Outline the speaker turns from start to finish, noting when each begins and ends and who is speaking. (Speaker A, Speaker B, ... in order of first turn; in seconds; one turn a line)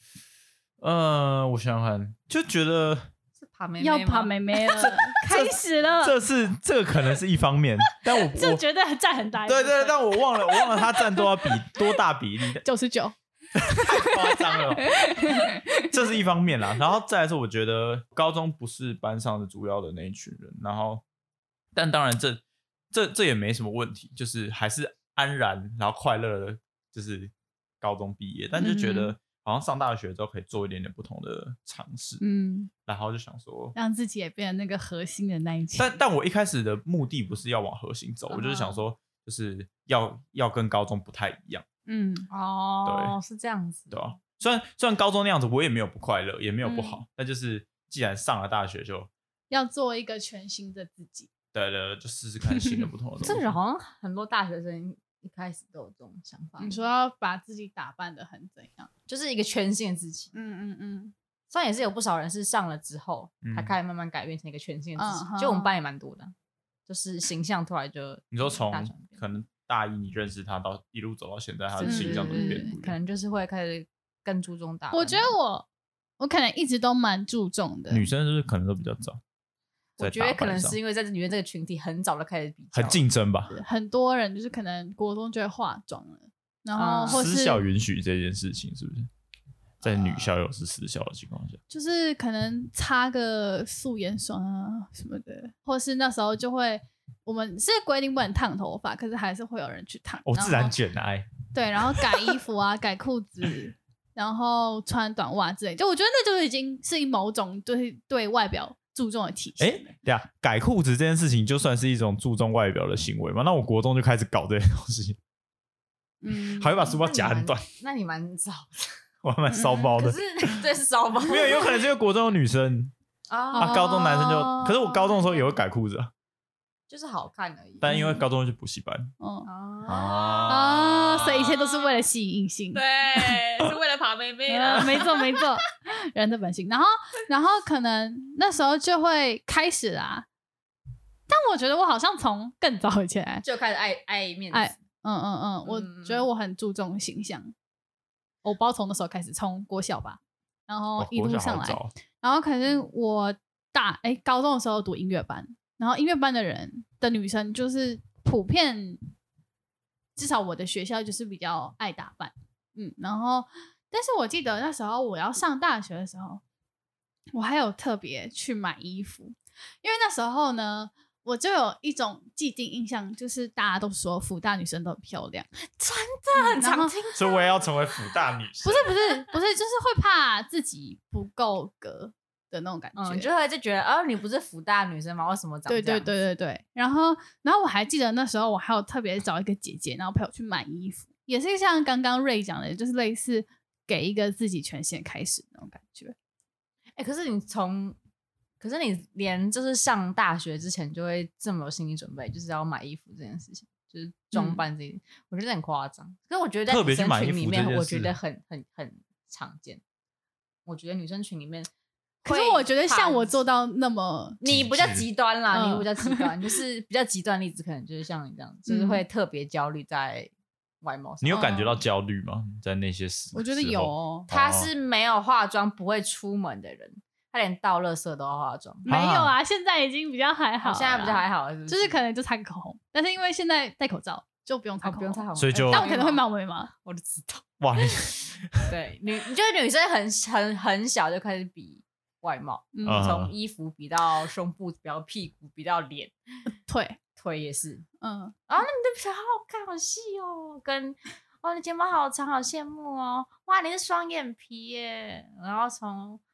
Speaker A: 0.8-3.1
Speaker B: 3.4-4.3
Speaker C: 3.8-6.2
Speaker A: 4.8-8.6
Speaker C: 8.2-11.8
Speaker A: 9.5-12.6
Speaker C: 12.6-15.9
Speaker A: 13.7-21.0
Speaker A: 21.7-32.2
Speaker C: 28.6-29.1
Speaker C: 32.2-32.7
Speaker A: 32.9-33.8
Speaker C: 33.8-36.0
Speaker A: 35.8-41.6
Speaker B: 38.3-38.8
Speaker C: 41.9-42.3
Speaker B: 42.3-44.0
Speaker A: 42.9-43.1
Speaker A: 43.9-49.1
Speaker C: 46.6-47.0
Speaker C: 49.5-51.3
Speaker A: 51.5-53.5
Speaker C: 52.5-52.9
Speaker B: 53.2-56.8
Speaker C: 56.6-58.9
Speaker B: 59.1-60.3
Speaker C: 60.3-61.1
Speaker B: 61.5-66.3
Speaker A: 63.4-63.8
Speaker C: 65.0-65.7
Speaker B: 66.9-69.2
Speaker A: 68.3-73.0
Speaker B: 71.8-75.3
Speaker C: 71.8-72.7
Speaker C: 74.9-75.7
Speaker C: 76.2-78.1
Speaker A: 77.9-79.2
Speaker B: 80.0-83.0
Speaker A: 80.0-80.8
Speaker A: 82.7-83.5
Speaker C: 83.5-87.6
Speaker B: 86.8-87.2
Speaker A: 87.1-89.1
Speaker A: 89.8-91.6
Speaker C: 89.9-90.3
Speaker C: 91.7-100.8
Speaker A: 100.3-101.3
Speaker C: 101.5-110.0
Speaker A: 101.8-102.3
Speaker A: 109.6-115.2
Speaker C: 116.2-116.9
Speaker A: 116.3-117.7
Speaker B: 116.9-119.0
Speaker A: 119.2-120.6
Speaker C: 119.5-120.0
Speaker B: 120.0-121.7
Speaker A: 121.3-122.9
Speaker C: 121.3-121.7
Speaker B: 123.3-123.9
Speaker C: 123.5-125.5
Speaker A: 123.6-126.1
Speaker B: 126.9-128.0
Speaker A: 127.8-129.1
Speaker C: 127.9-128.2
Speaker C: 129.2-129.5
Speaker B: 129.4-130.7
Speaker A: 129.9-131.5
Speaker C: 130.4-132.8
Speaker B: 132.7-135.6
Speaker C: 134.5-140.3
Speaker C: 141.3-143.4
Speaker B: 143.4-144.8
Speaker C: 144.5-147.5
Speaker B: 145.7-146.3
Speaker C: 148.4-159.0
Speaker A: 151.0-151.9
Speaker C: 160.2-166.4
Speaker C: 167.3-175.5
Speaker B: 175.8-177.7
Speaker C: 176.4-176.9
Speaker A: 177.2-178.9
Speaker C: 178.6-183.3
Speaker B: 183.0-186.1
Speaker C: 185.7-196.2
Speaker B: 197.0-198.0
Speaker B: 198.6-209.8
Speaker C: 204.3-204.6
Speaker A: 206.7-208.1
Speaker B: 210.7-211.7
Speaker B: 212.2-213.4
Speaker C: 212.2-214.4
Speaker B: 214.4-220.3
Speaker A: 214.4-215.1
Speaker C: 215.5-216.3
Speaker C: 218.7-219.0
Speaker B: 220.8-221.6
Speaker A: 221.2-224.7
Speaker C: 221.3-221.8
Speaker C: 223.3-224.3
Speaker B: 224.3-228.9
Speaker C: 228.9-236.7
Speaker A: 228.9-229.3
Speaker B: 230.6-232.0
Speaker B: 234.8-237.5
Speaker A: 235.4-235.9
Speaker A: 237.6-238.7
Speaker B: 238.6-246.1
Speaker C: 242.7-243.1
Speaker A: 242.9-243.3
Speaker C: 246.7-247.0
Speaker B: 247.2-247.9
Speaker C: 248.0-248.6
Speaker B: 248.5-256.2